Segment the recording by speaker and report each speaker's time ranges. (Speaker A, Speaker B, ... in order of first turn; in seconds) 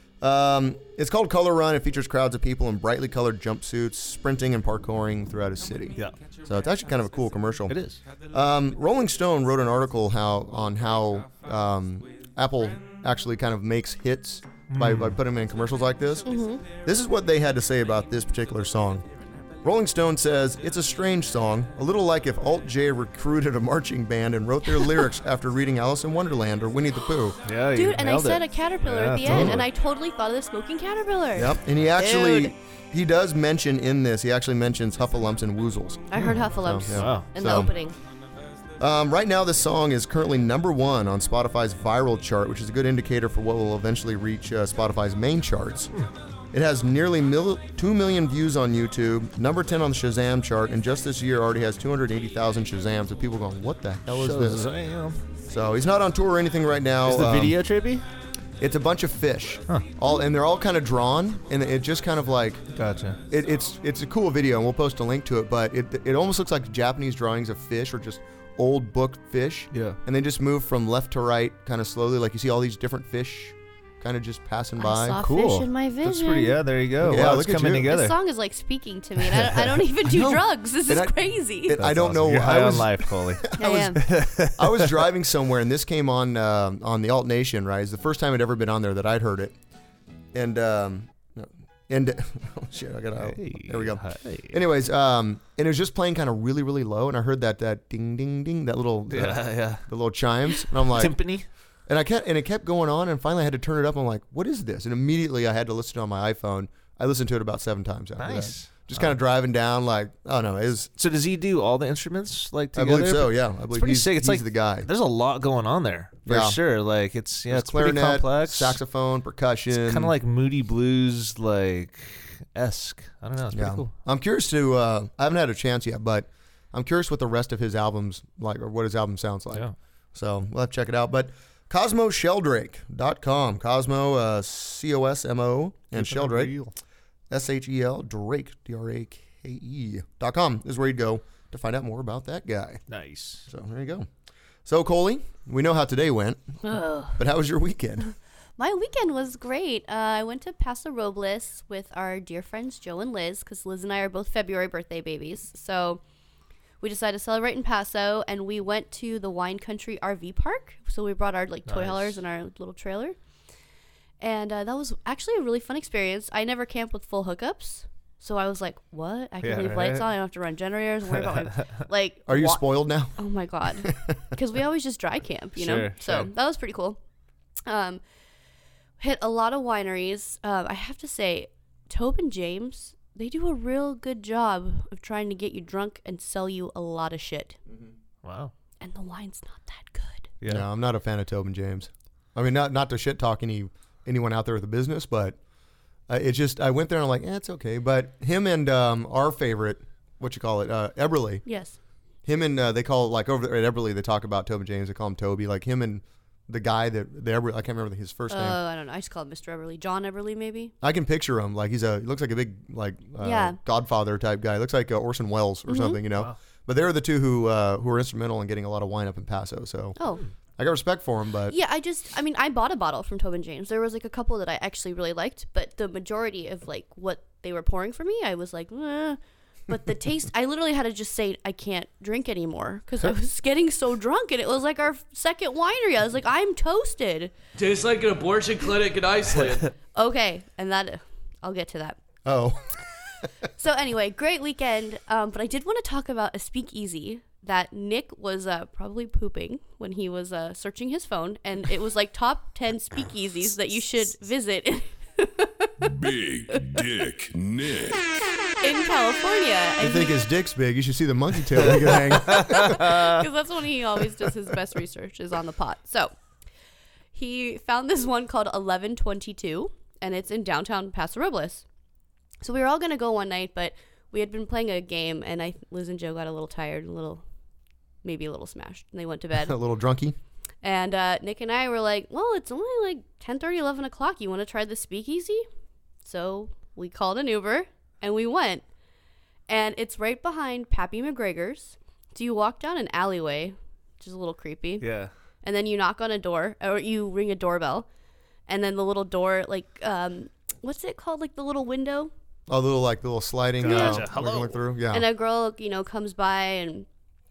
Speaker A: 0.2-7.8, 8.3-19.1, 19.6-27.4, 29.2-29.6, 31.4-37.7, 38.8-45.9, 46.5-54.7, 55.5-57.6, 58.6-62.6, 63.3-75.2, 77.0-77.9, 80.1-84.0, 84.6-89.5, 90.3-101.2, 101.9-110.9, 112.8-114.9, 116.3-116.6, 117.5-120.1, 123.5-136.6, 137.3-142.8, 143.5-144.1, 144.7-146.5, 147.1-148.1, 172.3-173.2, 173.8-174.2, 190.5-195.4, 196.1-201.4, 202.2-208.6, 210.8-220.0, 220.6-221.6, 242.2-242.7, 259.8-262.8, 279.4-280.2, 302.5-305.1
Speaker B: 7.7-8.0, 14.7-15.2, 27.4-29.6, 36.9-37.3, 54.1-55.2, 57.0-58.0, 62.7-63.2, 69.7-70.0, 75.2-78.2, 79.2-79.9, 81.8-85.0, 93.2-94.6, 99.1-99.8, 100.5-101.5, 108.2-109.1, 111.0-118.8, 119.7-123.9, 135.9-136.7, 142.9-143.5, 161.7-162.2, 169.4-170.1, 171.2-171.7, 175.6-176.3, 188.2-188.5, 261.7-263.1, 294.8-295.1, 303.6-304.6
Speaker C: 16.2-16.6, 27.7-32.5, 36.1-38.0, 74.8-76.5, 77.8-81.8, 83.6-84.0, 146.6-147.2, 148.6-156.0, 156.8-163.2, 164.2-177.0, 177.7-178.0, 179.0-187.6, 188.8-190.3, 201.5-201.8, 208.3-210.7, 213.2-213.6, 215.7-216.0, 221.5-237.3, 239.9-242.0, 243.6-255.9, 256.5-256.8, 258.6-260.2, 261.9-266.1, 267.1-271.7, 272.4-277.2, 278.0-279.6, 280.6-285.5, 286.0-288.6, 289.5-294.9, 295.4-297.9, 298.5-302.1, 303.6-304.1, 304.9-306.9
Speaker D: 237.6-239.7
Speaker E: 255.8-258.0